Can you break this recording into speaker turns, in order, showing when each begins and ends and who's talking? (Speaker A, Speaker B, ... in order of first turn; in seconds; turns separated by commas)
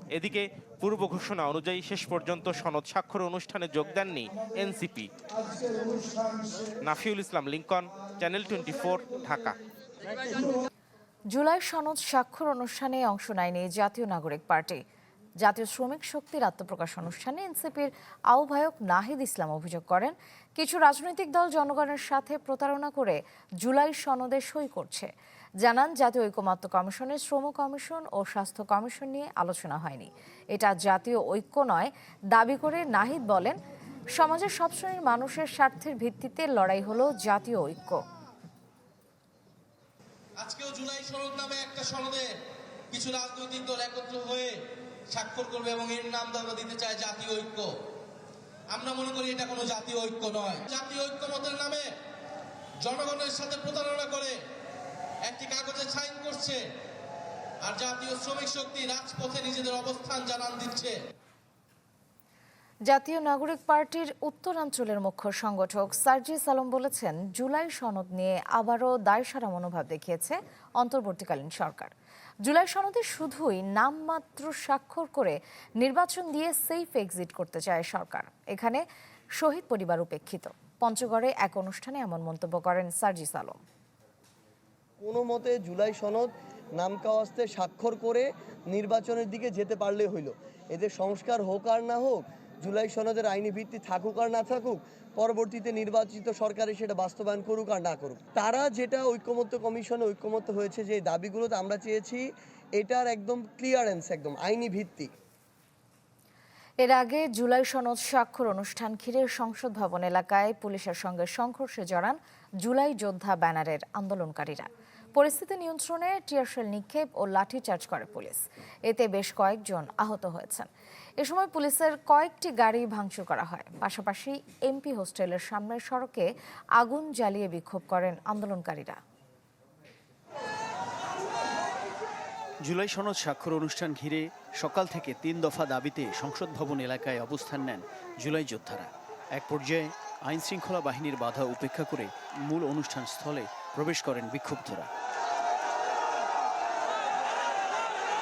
Speaker A: 0.1-5.1, Speaker A: 6.8-9.6, Speaker B: 11.3-14.8, Speaker B: 15.4-25.1, Speaker B: 25.6-33.6, Speaker B: 34.1-38.0, Speaker C: 40.4-42.2, Speaker C: 42.9-44.5, Speaker C: 45.1-47.7, Speaker C: 48.7-51.9, Speaker C: 52.8-54.4, Speaker C: 55.2-56.6, Speaker C: 57.6-61.0, Speaker B: 62.9-71.9, Speaker B: 72.4-78.8, Speaker B: 79.4-83.6, Speaker D: 85.0-102.2, Speaker D: 102.8-105.1, Speaker B: 106.8-120.7, Speaker B: 121.2-126.2, Speaker B: 126.8-129.0, Speaker E: 132.6-144.9